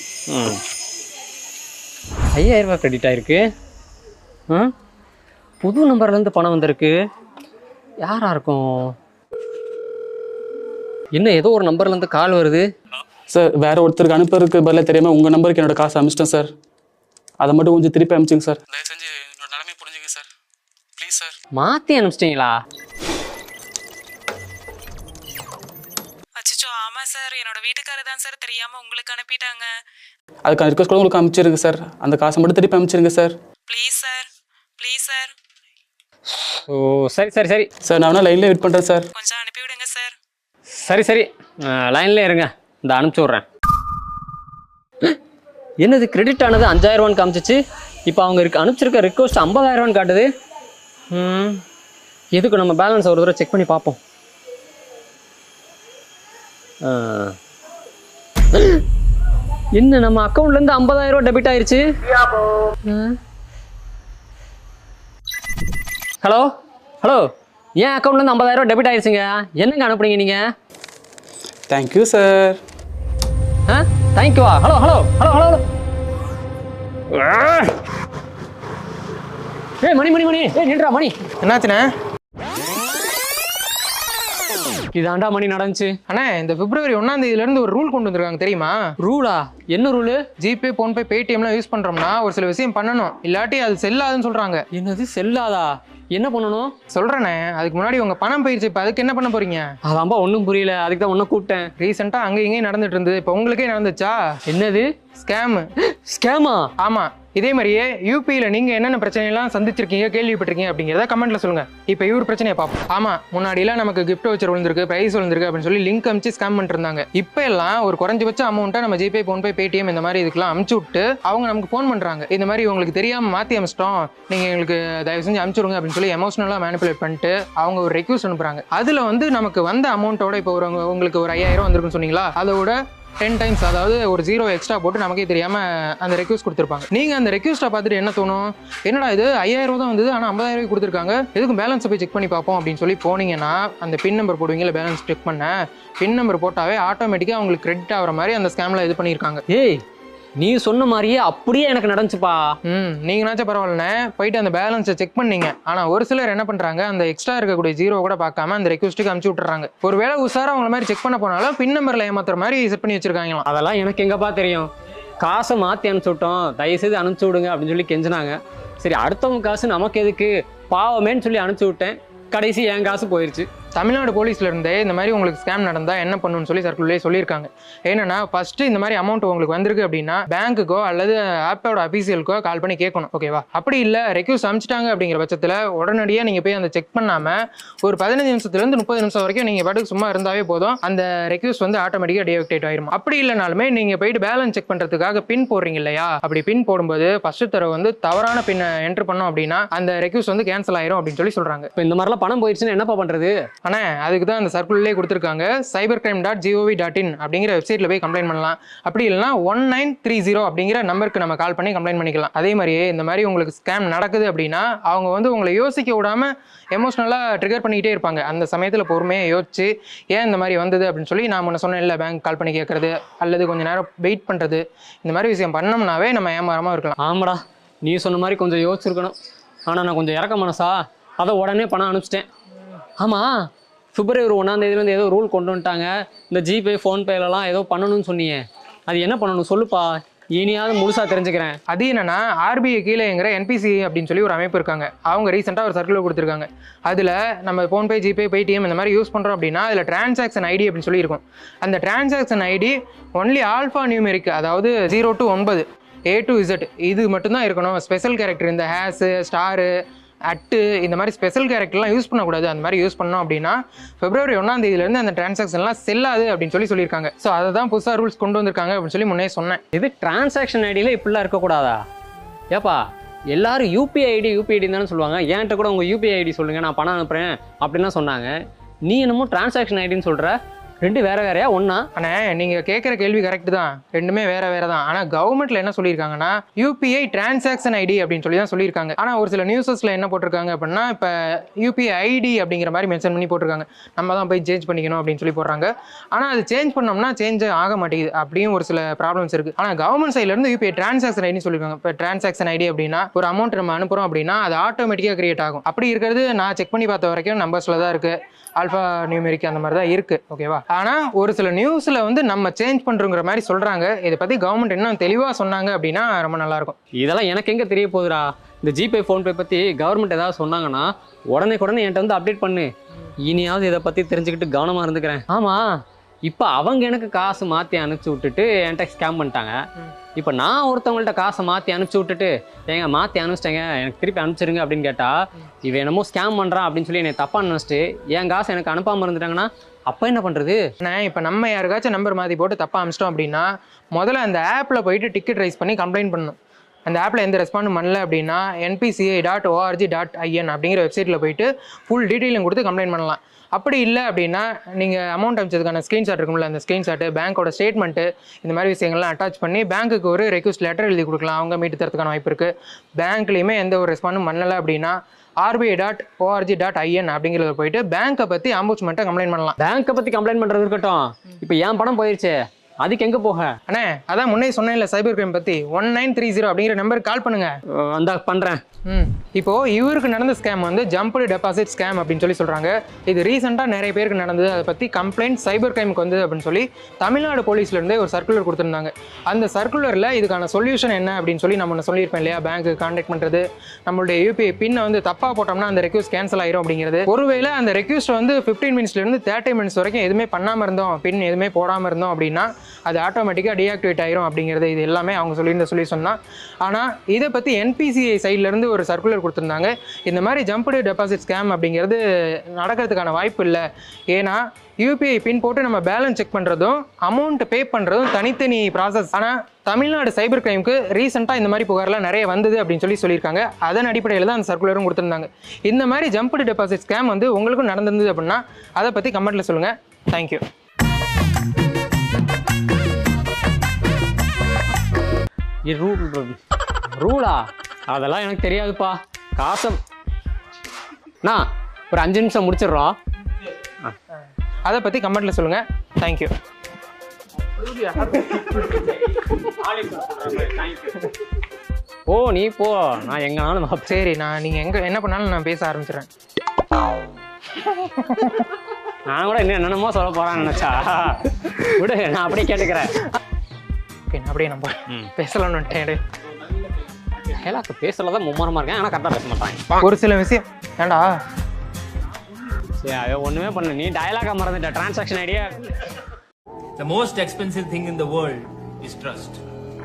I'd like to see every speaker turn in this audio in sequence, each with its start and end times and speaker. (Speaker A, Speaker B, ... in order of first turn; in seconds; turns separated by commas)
Speaker A: 0.3-0.6, Speaker A: 2.3-3.4, Speaker A: 5.6-7.0, Speaker A: 8.0-8.9, Speaker A: 11.1-12.7, Speaker B: 13.3-16.5, Speaker B: 17.4-20.3, Speaker B: 21.0-21.3, Speaker A: 21.6-22.5, Speaker C: 26.4-29.7, Speaker B: 30.4-33.4, Speaker C: 33.7-34.3, Speaker C: 34.8-35.3, Speaker A: 36.5-37.7, Speaker B: 37.8-39.1, Speaker C: 39.1-40.1, Speaker A: 40.7-43.4, Speaker A: 45.8-50.3, Speaker A: 51.1-51.6, Speaker A: 52.3-54.0, Speaker A: 56.8-57.4, Speaker A: 58.5-58.8, Speaker A: 59.8-62.2, Speaker A: 62.7-63.2, Speaker A: 66.2-66.5, Speaker A: 67.0-70.4, Speaker B: 71.7-72.6, Speaker A: 73.7-75.7, Speaker A: 77.1-77.7, Speaker A: 79.8-81.2, Speaker D: 81.4-81.9, Speaker A: 84.9-85.9, Speaker D: 86.1-88.8, Speaker A: 89.0-90.2, Speaker D: 90.4-94.6, Speaker A: 94.7-96.7, Speaker D: 96.9-99.7, Speaker A: 99.9-101.7, Speaker D: 101.8-104.2, Speaker A: 104.5-104.9, Speaker D: 105.2-105.7, Speaker A: 105.9-106.7, Speaker D: 106.8-149.4, Speaker A: 149.5-149.8, Speaker A: 150.4-152.4, Speaker D: 152.7-163.4, Speaker A: 163.4-173.5, Speaker D: 173.8-201.7, Speaker A: 201.8-203.3, Speaker D: 203.6-226.9, Speaker A: 227.0-229.1, Speaker A: 229.7-232.3, Speaker A: 233.0-241.6, Speaker D: 241.7-259.7, Speaker D: 260.3-269.6, Speaker A: 269.7-271.8, Speaker A: 272.5-272.8, Speaker A: 273.3-278.3, Speaker A: 278.9-281.8, Speaker D: 282.0-316.8, Speaker A: 317.0-322.7, Speaker A: 323.2-325.7, Speaker A: 326.3-329.6, Speaker A: 330.1-340.6, Speaker D: 340.8-369.6, Speaker A: 369.6-373.5, Speaker D: 373.7-377.5, Speaker A: 377.7-378.6, Speaker D: 378.9-412.0, Speaker D: 412.5-430.4, Speaker A: 435.7-436.4, Speaker A: 437.0-439.8, Speaker A: 441.2-442.9, Speaker D: 444.6-446.3, Speaker A: 447.6-448.1, Speaker D: 448.1-448.5, Speaker A: 448.9-451.1, Speaker A: 452.1-453.9, Speaker D: 453.9-456.1, Speaker D: 457.7-458.4, Speaker A: 459.1-463.0, Speaker D: 464.1-466.0, Speaker A: 467.1-469.6, Speaker D: 469.8-471.1, Speaker A: 472.8-475.6, Speaker E: 476.8-479.4